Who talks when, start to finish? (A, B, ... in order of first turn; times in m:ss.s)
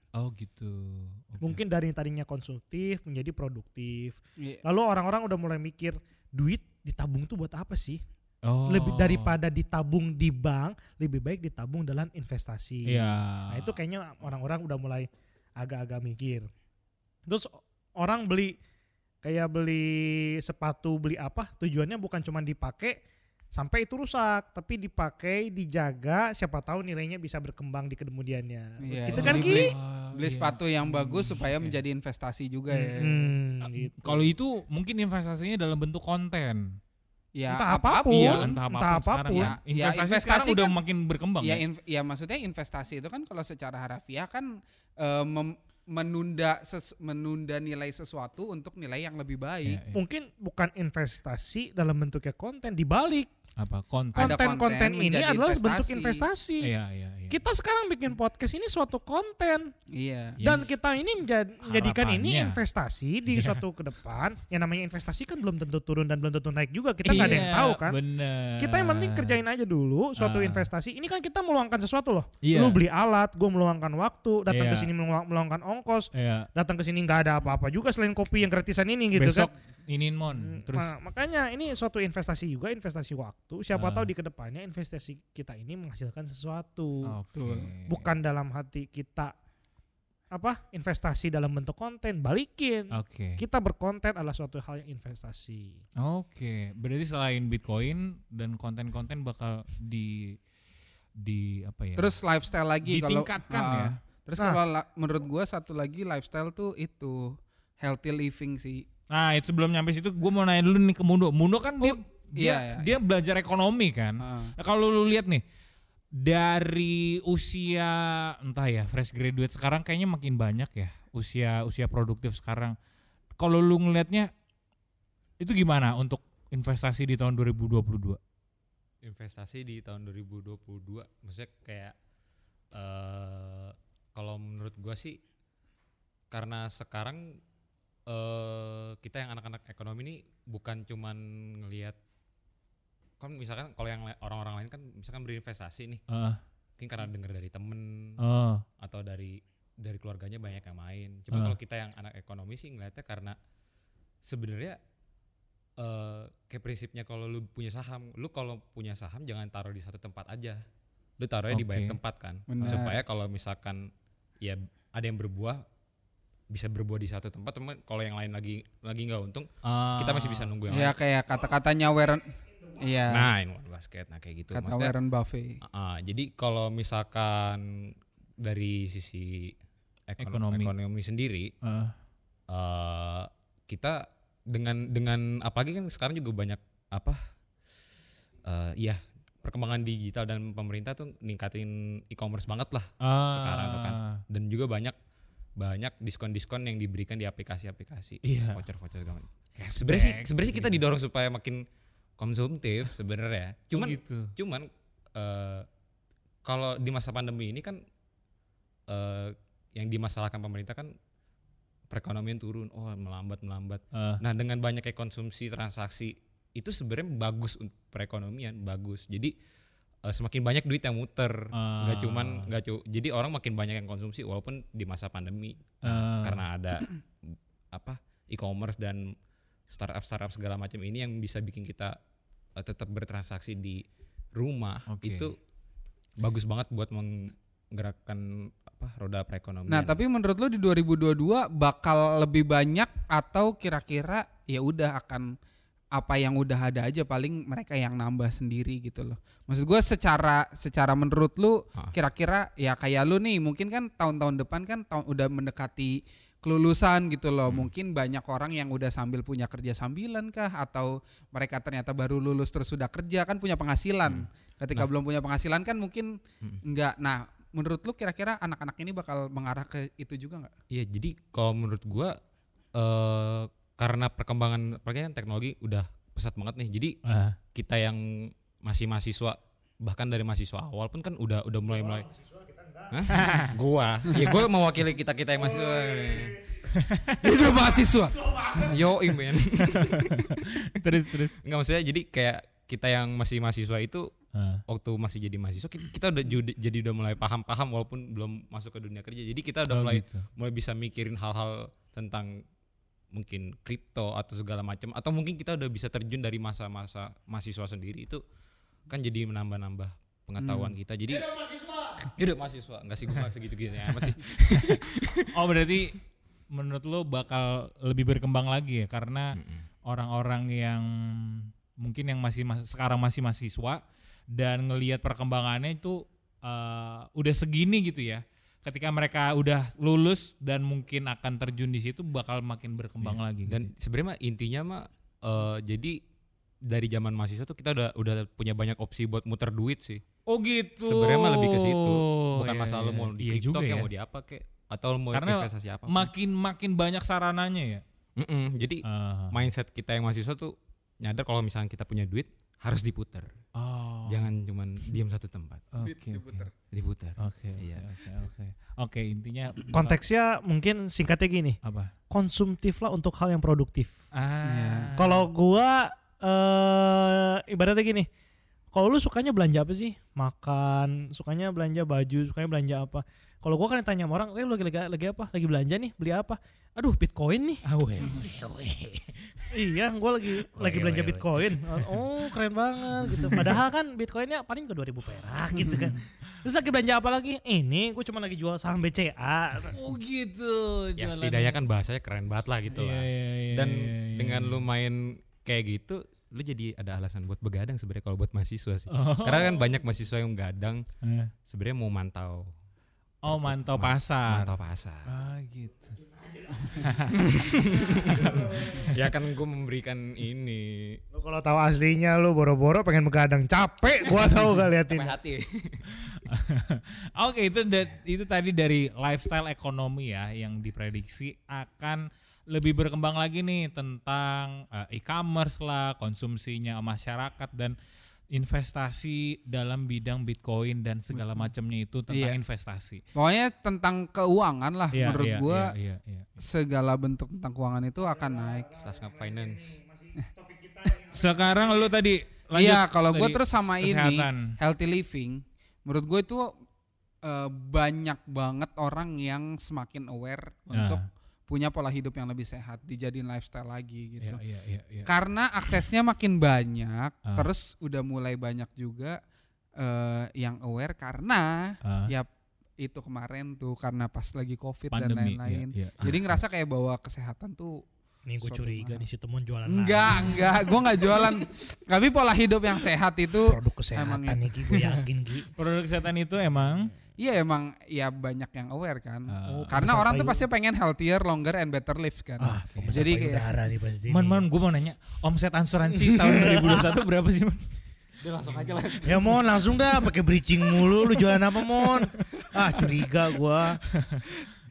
0:00.2-0:01.6 A
0:01.4-0:08.0 B
0:08.4-0:09.4 A
0:08.6-0:16.5 B
0:12.9-0:13.8 A
0:17.3-0:18.6 B
0:19.2-0:23.0 B
0:23.5-0:29.7 B
0:28.8-0:33.3 C
0:29.1-0:31.8 A
0:32.7-0:34.3 B
0:33.6-0:36.8 A
0:37.3-0:38.5 C
0:37.5-0:39.6 B
0:38.1-0:41.6 A
0:39.3-0:40.8 C
0:41.4-0:49.8 C
0:49.6-0:50.0 A
0:49.9-0:53.3 B
0:53.6-0:54.4 A
0:54.1-0:56.7 B
0:54.2-0:56.2 C
0:56.6-0:57.4 A
0:57.3-0:59.7 B
0:59.9-1:00.4 C
1:00.4-1:08.0 B
1:01.6-1:02.6 A
1:03.3-1:03.6 A
1:07.0-1:09.4 A
1:08.6-1:19.5 B
1:10.2-1:10.7 A
1:12.4-1:12.8 A
1:14.5-1:14.9 A
1:16.1-1:16.5 A
1:19.1-1:20.9 A
1:20.4-1:27.1 B
1:23.7-1:24.1 A
1:27.0-1:28.1 A
1:27.3-1:27.7 C
1:27.9-1:29.3 B
1:30.3-1:35.8 B
1:32.9-1:33.4 A
1:36.0-1:40.4 A
1:41.2-1:42.2 A
1:42.0-1:48.8 C
1:42.8-1:43.9 A
1:49.1-1:55.4 A
1:51.8-1:53.0 C
1:54.2-1:54.5 C
1:56.2-2:02.8 A
2:03.4-2:04.3 A
2:05.4-2:08.2 A
2:09.0-2:11.9 D
2:12.7-2:15.2 D
2:16.3-2:17.4 D
2:18.1-2:22.0 D
2:23.2-2:26.0 D
2:26.1-2:26.4 A
2:26.8-2:28.2 D
2:28.2-2:28.6 A
2:28.8-2:33.4 D
2:31.3-2:31.6 A
2:34.2-2:34.8 D
2:35.8-2:40.6 D
2:41.2-2:43.9 D
2:41.5-2:42.0 A
2:42.5-2:43.0 C
2:42.6-2:42.9 A
2:44.4-2:45.6 D
2:46.5-2:51.0 D
2:49.6-2:50.5 A
2:50.7-2:53.3 C
2:53.1-2:54.9 D
2:54.5-2:55.6 C
2:55.6-2:59.5 D
3:00.1-3:01.5 D
3:00.2-3:00.7 A
3:01.6-3:01.9 A
3:02.5-3:07.3 D
3:08.4-3:15.0 D
3:13.0-3:14.2 A
3:15.6-3:21.6 D
3:18.2-3:18.6 A
3:19.6-3:20.8 A
3:22.2-3:25.7 D
3:23.7-3:24.3 A
3:26.4-3:27.8 D
3:28.9-3:30.9 D
3:31.9-3:39.3 D
3:33.9-3:34.2 A
3:40.0-3:49.1 D
3:41.5-3:42.5 A
3:45.8-3:46.4 A
3:49.7-3:52.0 D
3:52.6-3:53.8 D
3:54.3-3:55.4 D
3:54.9-3:55.3 A
3:56.2-4:00.0 D
3:59.7-4:05.3 C
4:05.9-4:30.5 C
4:24.1-4:24.9 D
4:30.7-4:32.2 D
4:32.7-4:37.0 D
4:37.0-4:37.4 A
4:37.5-4:42.1 D
4:41.7-4:43.0 B
4:42.9-4:46.4 D
4:43.1-4:43.5 A
4:45.3-4:46.6 B
4:46.7-4:47.3 A
4:47.2-4:48.2 C
4:47.4-4:48.9 B
4:48.5-4:50.6 D
4:49.8-4:51.4 A
4:51.1-4:54.1 D
4:54.3-4:54.6 A
4:54.7-5:02.4 D
4:59.7-5:00.3 A
5:03.1-5:08.2 D
5:08.9-5:11.4 D
5:10.4-5:10.7 C
5:12.0-5:15.3 D
5:13.9-5:16.0 A
5:16.5-5:33.7 A
5:19.4-5:19.6 D
5:33.0-5:36.0 D
5:36.6-5:40.0 D
5:40.3-5:43.9 A
5:40.8-5:46.1 D
5:45.1-5:47.8 A
5:48.2-5:53.3 D
5:48.8-5:49.4 A
5:53.6-5:54.3 A
5:54.1-5:55.6 D
5:55.7-5:56.5 A
5:55.8-5:56.5 C
5:56.7-5:57.9 D
5:57.2-6:00.0 A
5:59.7-6:01.6 B
6:01.6-6:01.9 A
6:02.1-6:03.9 B
6:04.1-6:05.3 A
6:04.4-6:04.9 C
6:05.0-6:08.1 B
6:08.7-6:17.6 B
6:17.6-6:19.5 A
6:19.5-6:29.8 B
6:20.6-6:21.0 D
6:20.7-6:22.0 A
6:23.0-6:23.6 A
6:29.6-6:31.6 A
6:31.0-6:40.8 D
6:32.7-6:34.6 A
6:38.9-6:39.6 A
6:41.0-6:41.3 A
6:41.4-6:42.5 D
6:43.2-6:44.5 A
6:43.2-6:45.1 D
6:45.0-6:46.0 A
6:46.0-6:49.0 B
6:46.8-6:47.2 A
6:47.1-6:51.0 D
6:48.1-6:48.4 A
6:51.1-6:55.2 B
6:54.9-6:55.9 D
6:56.0-7:07.8 A
7:08.3-7:13.0 A
7:12.1-7:12.4 C
7:13.1-7:15.7 C
7:14.9-7:16.4 A
7:16.4-7:18.7 C
7:18.0-7:21.9 B
7:18.8-7:19.7 D
7:21.1-7:24.5 A
7:22.5-7:26.5 C
7:27.2-7:34.4 C
7:30.7-7:31.0 A
7:34.2-7:35.1 A
7:35.0-7:39.2 C
7:39.8-7:42.3 C
7:41.8-7:42.1 A
7:42.8-7:47.8 C
7:44.9-7:46.4 A
7:48.3-7:50.5 B
7:48.4-7:49.0 C
7:49.7-7:55.0 C
7:53.4-7:55.5 B
7:55.6-7:56.9 A
7:57.2-8:03.6 C
7:59.3-7:59.7 A
7:59.4-8:00.4 B
8:02.4-8:04.4 B
8:02.7-8:03.0 A
8:04.1-8:07.7 A
8:05.9-8:07.0 B
8:08.3-8:09.4 A
8:08.4-8:09.0 D
8:09.0-8:13.8 B
8:10.8-8:11.2 A
8:13.9-8:14.2 A